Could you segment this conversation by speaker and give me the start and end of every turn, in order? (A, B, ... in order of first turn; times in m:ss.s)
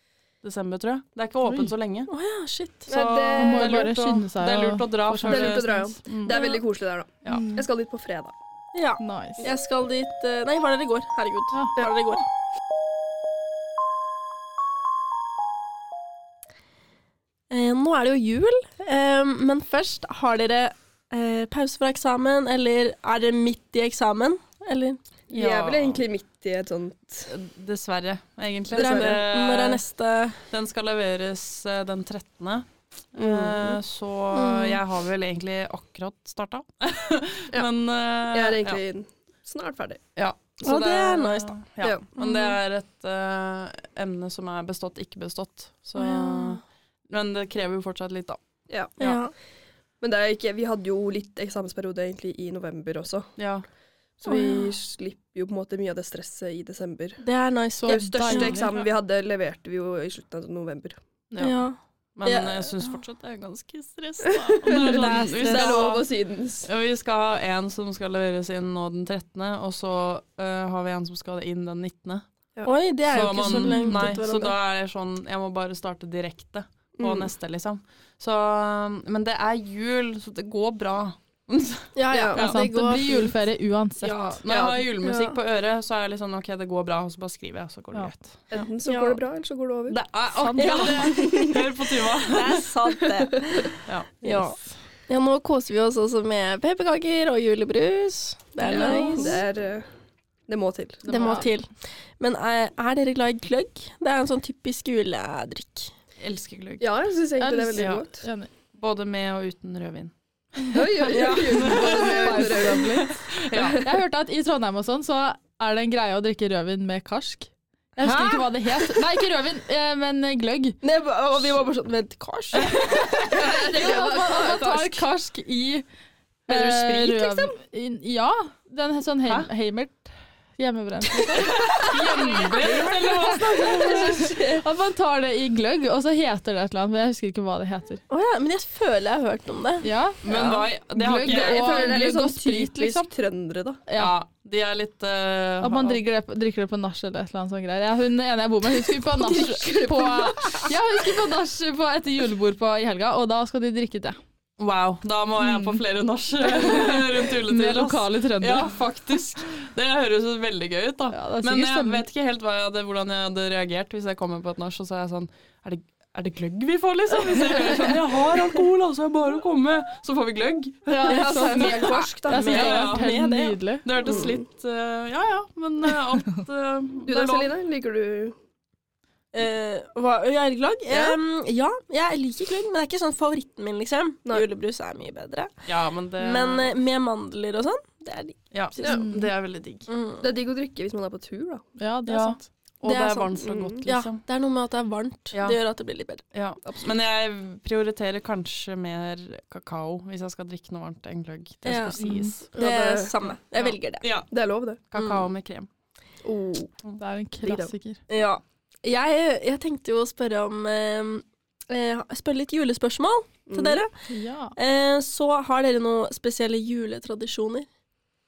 0:00.4-0:02.1 A
0:01.4-0:01.7 B
0:02.1-0:02.9 C
0:02.9-0:03.9 D
0:02.9-0:06.4 A
0:03.4-0:06.0 B
0:05.2-0:08.3 D
0:06.3-0:06.6 C
0:07.3-0:07.6 B
0:08.7-0:12.2 C
0:09.0-0:09.5 B
0:17.5-0:25.0 C
0:25.3-0:27.3 D
0:25.3-0:26.0 A
0:27.3-0:29.8 A
0:28.7-0:29.2 D
0:28.7-0:30.4 C
0:30.5-0:38.8 A
0:33.2-0:33.8 D
0:34.3-0:34.8 C
0:38.3-0:40.0 D
0:40.2-0:48.4 A
0:40.6-0:41.5 C
0:41.8-0:42.6 D
0:46.0-0:46.6 C
0:48.7-0:49.0 D
0:49.0-0:49.3 C
0:50.0-0:53.3 D
0:53.4-0:53.6 A
0:54.2-0:57.2 D
0:54.2-0:54.7 C
0:57.2-0:58.6 C
0:57.8-0:58.8 B
0:57.9-1:01.0 D
1:01.3-1:01.7 A
1:01.4-1:03.0 C
1:02.2-1:06.1 A
1:04.4-1:06.7 D
1:04.7-1:05.9 C
1:06.6-1:12.2 A
1:12.7-1:14.6 C
1:13.1-1:22.6 A
1:17.0-1:17.3 D
1:22.0-1:23.4 C
1:22.1-1:22.4 D
1:22.4-1:24.4 B
1:24.0-1:24.4 C
1:24.4-1:28.7 A
1:24.5-1:24.8 D
1:25.0-1:25.4 C
1:28.5-1:30.0 D
1:28.8-1:29.2 C
1:29.9-1:32.7 A
1:30.4-1:31.1 B
1:30.6-1:31.7 C
1:30.8-1:31.6 D
1:32.2-1:34.6 C
1:33.3-1:33.7 D
1:33.9-1:34.5 A
1:35.1-1:39.4 C
1:38.6-1:39.9 D
1:38.6-1:39.0 A
1:38.7-1:39.3 B
1:40.5-1:41.3 D
1:41.0-1:41.5 A
1:41.1-1:45.9 C
1:41.1-1:41.5 B
1:46.2-1:47.0 A
1:46.8-1:48.2 D
1:47.4-1:48.5 B
1:47.8-1:48.0 A
1:48.7-1:50.1 A
1:50.7-1:53.9 D
1:51.0-1:51.9 C
1:51.5-1:53.9 A
1:51.6-1:53.1 B
1:53.8-2:00.8 B
1:58.0-1:59.0 C
2:00.8-2:02.8 C
2:02.7-2:05.8 B
2:03.3-2:05.0 D
2:06.5-2:11.8 B
2:06.5-2:07.6 D
2:11.4-2:14.6 D
2:11.5-2:14.3 A
2:13.6-2:18.0 B
2:18.1-2:19.9 C
2:19.8-2:23.1 B
2:20.2-2:22.0 A
2:20.3-2:20.6 D
2:21.2-2:23.8 D
2:23.9-2:24.1 B
2:24.0-2:26.0 A
2:25.6-2:34.2 B
2:29.1-2:30.8 D
2:34.6-2:53.2 A
2:35.4-2:35.8 B
2:36.4-2:38.7 B
2:41.1-2:42.0 B
2:50.9-2:53.6 C
2:51.1-2:52.6 D
2:51.1-2:53.9 B
2:53.8-2:57.5 A
2:54.0-2:54.4 D
2:57.1-2:58.4 D
2:59.3-3:05.6 C
3:00.9-3:01.2 D
3:05.7-3:06.8 A
3:06.2-3:09.0 C
3:08.5-3:09.9 A
3:08.8-3:09.3 B
3:09.9-3:10.3 C
3:10.2-3:11.6 D
3:11.8-3:12.5 B
3:12.1-3:14.2 A
3:12.8-3:16.2 C
3:13.4-3:13.8 D
3:15.3-3:15.6 A
3:16.3-3:22.4 A
3:21.6-3:22.0 C
3:22.0-3:22.4 B
3:22.5-3:24.0 C
3:22.5-3:23.3 D
3:23.6-3:24.3 A
3:24.3-3:24.8 D
3:24.9-3:25.7 A
3:26.2-3:26.8 D
3:27.0-3:28.0 B
3:27.4-3:27.7 D
3:28.1-3:33.9 C
3:33.5-3:33.8 D
3:34.1-3:34.6 B
3:34.6-3:37.7 C